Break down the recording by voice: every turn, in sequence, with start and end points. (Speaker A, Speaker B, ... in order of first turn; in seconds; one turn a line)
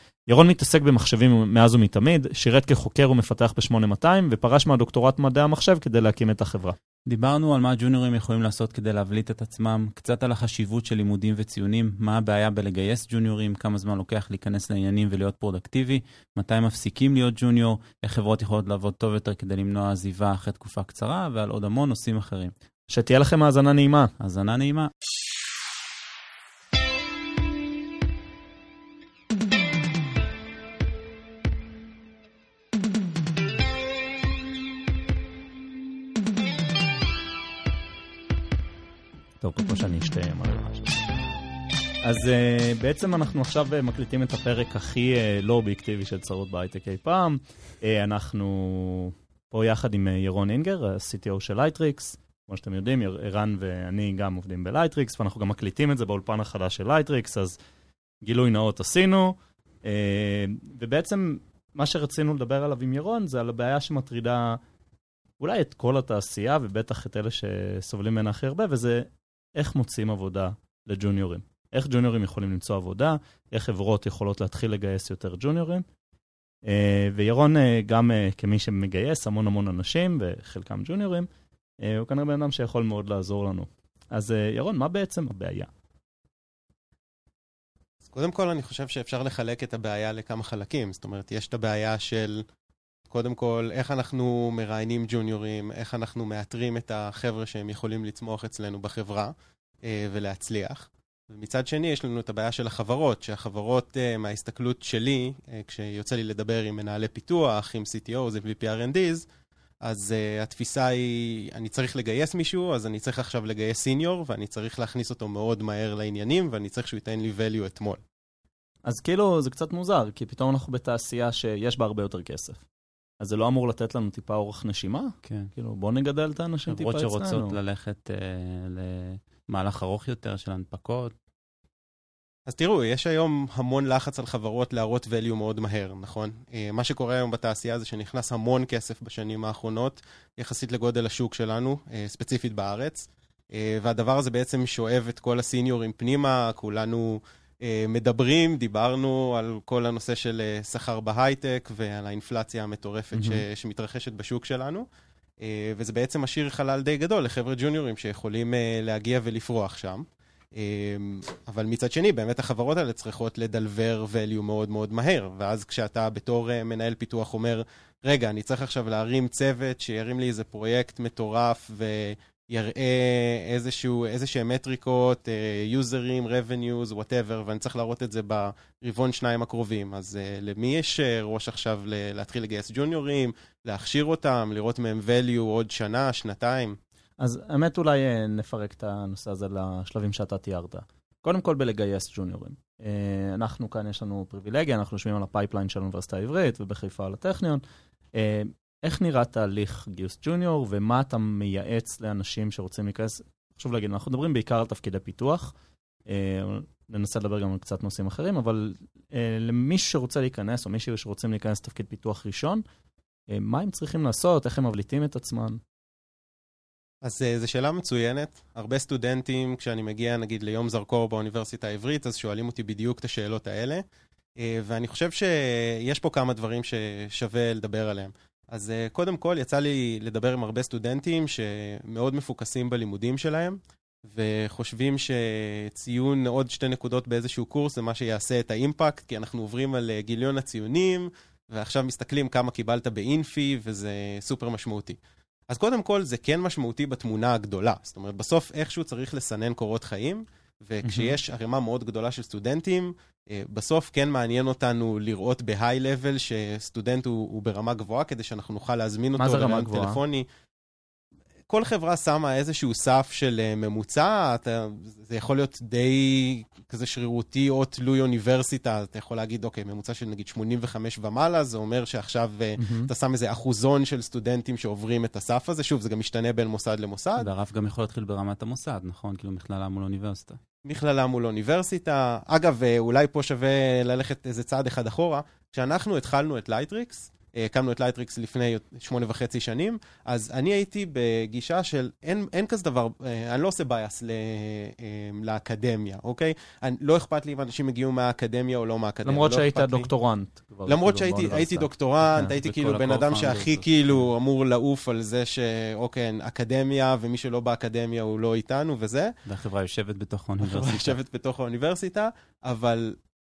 Speaker A: 0.3-6.8
Speaker B: 7.1-22.5
Speaker A: 22.9-24.1
Speaker B: 24.2-24.9
Speaker A: 39.4-41.1
Speaker A: 42.0-57.6
Speaker A: 58.2-64.6
Speaker A: 65.4-75.8
Speaker A: 76.6-81.3
Speaker A: 81.8-85.7
Speaker C: 88.0-92.5
Speaker C: 93.1-109.3
Speaker C: 109.8-118.0
Speaker A: 118.8-122.6
Speaker A: 123.2-127.6
Speaker B: 125.2-125.5
Speaker B: 126.7-131.1
Speaker C: 132.5-154.9
Speaker A: 153.1-153.4
Speaker C: 155.4-186.8
Speaker A: 187.2-197.6
Speaker A: 198.1-205.5
Speaker A: 206.1-212.6
Speaker A: 213.3-215.6
Speaker C: 217.0-223.8
Speaker C: 224.4-245.0
Speaker C: 245.5-260.3
Speaker A: 250.8-251.2
Speaker A: 259.2-260.0
Speaker C: 261.5-277.3
Speaker A: 272.6-272.9
Speaker B: 277.2-280.4
Speaker C: 280.6-299.9
Speaker A: 299.1-302.3
Speaker C: 300.7-309.1
Speaker B: 302.3-304.1
Speaker B: 309.3-311.0
Speaker C: 310.4-313.0